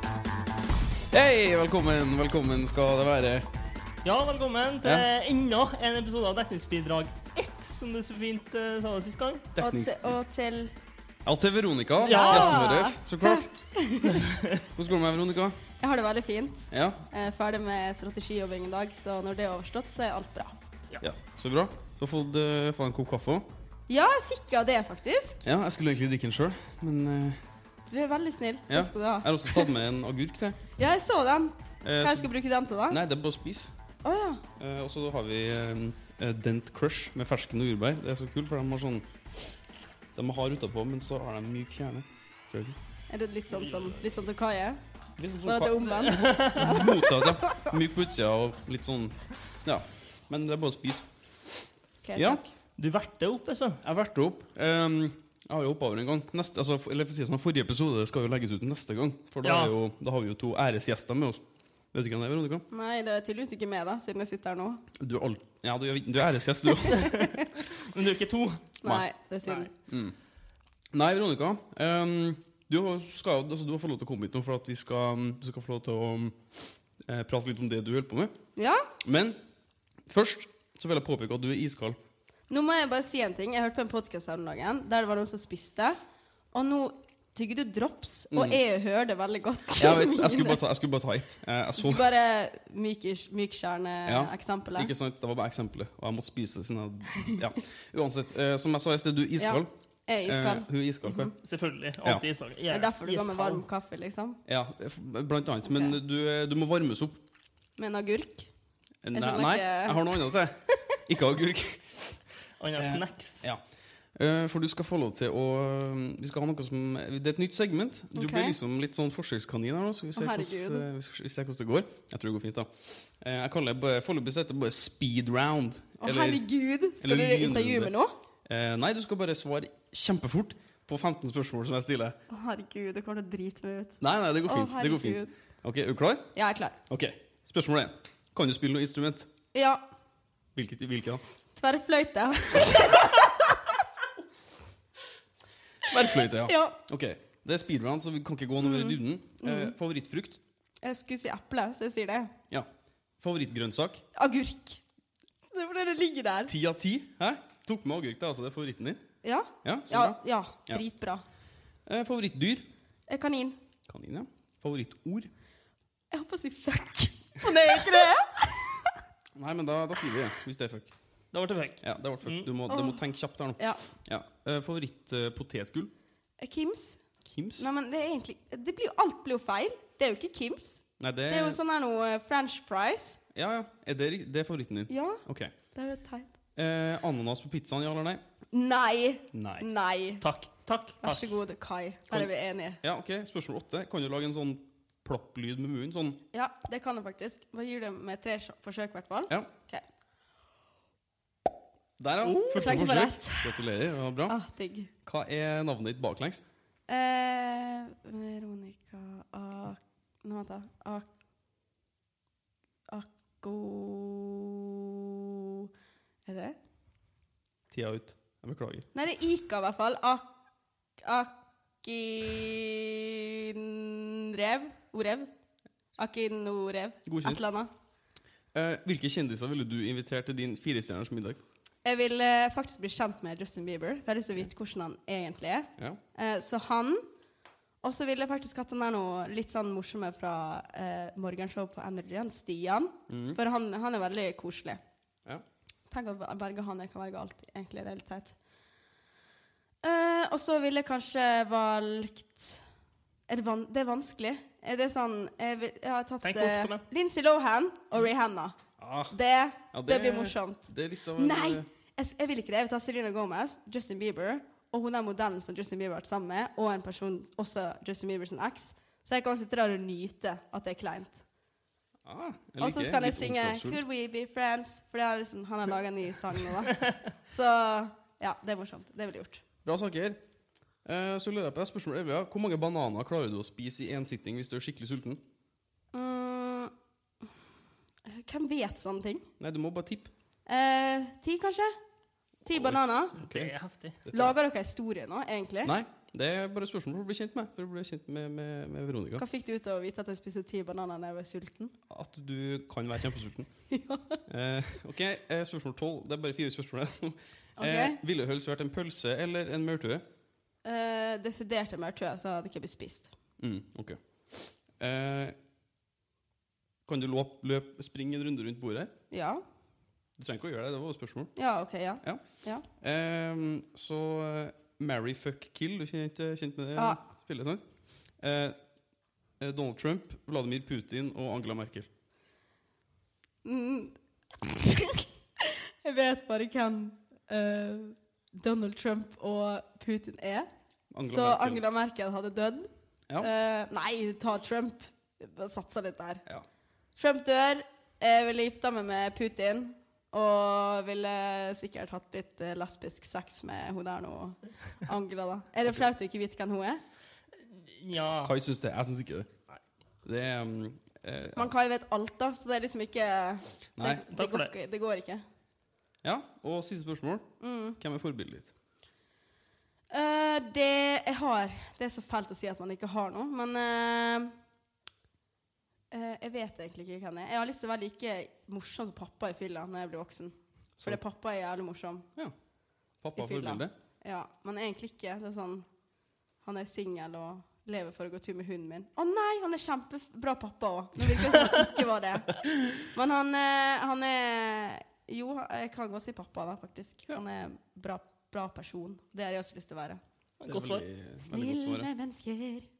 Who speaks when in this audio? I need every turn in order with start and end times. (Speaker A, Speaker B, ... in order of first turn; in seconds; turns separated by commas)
Speaker A: 1.1-3.5, Speaker B: 4.0-9.5, Speaker A: 9.5-10.1, Speaker C: 9.6-10.7, Speaker A: 11.2-13.5, Speaker C: 12.0-14.3, Speaker B: 12.0-12.8, Speaker B: 14.1-14.6, Speaker A: 14.7-15.6, Speaker C: 15.8-20.6, Speaker A: 16.7-17.0, Speaker A: 21.0-23.5, Speaker C: 23.9-25.4, Speaker A: 25.4-27.4, Speaker C: 27.9-29.7, Speaker A: 28.7-30.6, Speaker C: 30.8-33.0, Speaker A: 31.8-32.3, Speaker A: 32.9-33.7, Speaker C: 34.0-34.4, Speaker A: 34.5-39.5, Speaker A: 40.1-42.8, Speaker C: 43.1-44.8, Speaker A: 45.2-52.4, Speaker C: 45.4-47.6, Speaker B: 46.1-46.6, Speaker C: 52.0-52.5, Speaker B: 52.8-53.8, Speaker A: 53.8-62.6, Speaker B: 59.4-59.8, Speaker C: 62.7-64.8, Speaker A: 65.0-67.3, Speaker B: 66.9-68.7, Speaker C: 67.0-67.6, Speaker C: 68.8-69.7, Speaker B: 69.4-69.7, Speaker A: 69.9-70.2, Speaker A: 70.9-78.3, Speaker C: 78.5-78.9, Speaker A: 79.0-79.4, Speaker A: 80.0-82.0, Speaker C: 82.5-86.0, Speaker C: 86.5-90.6, Speaker A: 88.3-88.6, Speaker A: 89.8-92.1, Speaker C: 91.8-94.9, Speaker A: 94.0-99.7, Speaker C: 99.4-101.3, Speaker A: 100.2-101.3, Speaker B: 101.4-103.7, Speaker C: 102.7-104.4, Speaker A: 104.5-107.2, Speaker C: 105.6-106.0, Speaker C: 107.8-108.5, Speaker A: 109.0-112.2, Speaker C: 109.1-110.8, Speaker B: 112.6-113.5, Speaker A: 112.8-113.6, Speaker A: 114.1-126.5, Speaker C: 118.1-118.6, Speaker C: 120.2-120.8, Speaker C: 126.0-128.1, Speaker A: 127.0-127.9, Speaker A: 128.4-132.2, Speaker C: 132.3-135.3, Speaker A: 134.0-136.3, Speaker C: 136.3-136.8, Speaker A: 136.9-139.3, Speaker C: 139.5-139.8, Speaker A: 140.5-141.2, Speaker C: 141.6-143.6, Speaker A: 145.8-150.4, Speaker C: 145.9-146.8, Speaker C: 148.6-149.7, Speaker C: 150.8-152.3, Speaker A: 153.2-154.0, Speaker C: 154.1-154.8, Speaker C: 155.5-156.5, Speaker A: 156.5-159.0, Speaker C: 159.2-161.2, Speaker A: 159.6-160.8, Speaker A: 161.8-162.7, Speaker C: 163.1-163.6, Speaker A: 163.9-165.3, Speaker C: 166.1-168.9, Speaker A: 169.3-170.9, Speaker B: 171.3-172.5, Speaker A: 171.8-175.9, Speaker C: 172.7-173.0, Speaker C: 173.6-173.8, Speaker C: 176.4-177.0, Speaker A: 177.2-177.7, Speaker C: 177.6-183.2, Speaker A: 181.0-181.6, Speaker A: 183.3-185.5, Speaker C: 184.9-186.3, Speaker A: 186.6-188.2, Speaker C: 188.5-190.2, Speaker A: 189.3-189.7, Speaker B: 190.2-191.4, Speaker C: 191.0-192.8, Speaker A: 192.8-196.2, Speaker C: 196.3-199.8, Speaker A: 202.0-204.3, Speaker B: 202.2-202.7, Speaker C: 202.4-203.6, Speaker C: 204.3-204.9, Speaker A: 205.0-206.4, Speaker C: 206.9-211.1, Speaker C: 212.9-215.7, Speaker C: 216.3-216.6, Speaker A: 217.7-218.9, Speaker C: 218.9-220.2, Speaker C: 221.0-225.3, Speaker C: 226.0-227.7, Speaker A: 227.0-227.4, Speaker A: 228.5-231.4, Speaker C: 231.8-237.1, Speaker C: 237.8-244.8, Speaker A: 243.1-243.4, Speaker C: 245.9-248.3, Speaker C: 249.8-252.6, Speaker C: 253.3-258.6, Speaker B: 256.2-256.8, Speaker A: 258.8-259.1, Speaker C: 259.1-271.2, Speaker A: 259.7-261.7, Speaker A: 272.0-273.8, Speaker C: 272.6-279.4, Speaker A: 279.6-280.2, Speaker A: 280.8-285.2, Speaker C: 285.9-286.7, Speaker C: 288.1-289.3, Speaker A: 289.4-290.1, Speaker C: 290.4-291.8, Speaker C: 292.4-293.2, Speaker A: 292.5-293.5, Speaker B: 293.2-294.0, Speaker A: 294.0-294.4, Speaker C: 294.1-295.7, Speaker A: 295.6-299.2, Speaker C: 299.2-301.7, Speaker A: 301.9-303.5, Speaker C: 303.7-304.2, Speaker A: 304.2-310.0, Speaker C: 307.6-308.0, Speaker C: 310.6-313.1, Speaker A: 313.4-315.4, Speaker A: 316.9-318.9, Speaker C: 319.1-319.4, Speaker A: 320.2-321.3, Speaker C: 321.4-322.6, Speaker A: 322.0-327.6, Speaker C: 326.8-327.0, Speaker A: 328.2-328.6, Speaker A: 329.4-331.9, Speaker C: 333.4-340.5, Speaker A: 340.9-341.6, Speaker C: 341.0-346.2, Speaker C: 347.0-356.8, Speaker B: 357.7-358.3, Speaker A: 358.2-359.3, Speaker A: 360.0-361.5, Speaker C: 361.4-365.2, Speaker A: 363.8-364.0, Speaker B: 363.9-364.5, Speaker A: 366.0-368.5, Speaker C: 367.4-367.8, Speaker C: 369.9-374.3, Speaker C: 375.9-382.1, Speaker A: 383.0-383.7, Speaker C: 383.1-385.7, Speaker C: 386.4-400.0, Speaker B: 400.4-400.9, Speaker A: 400.5-401.9, Speaker C: 401.2-402.7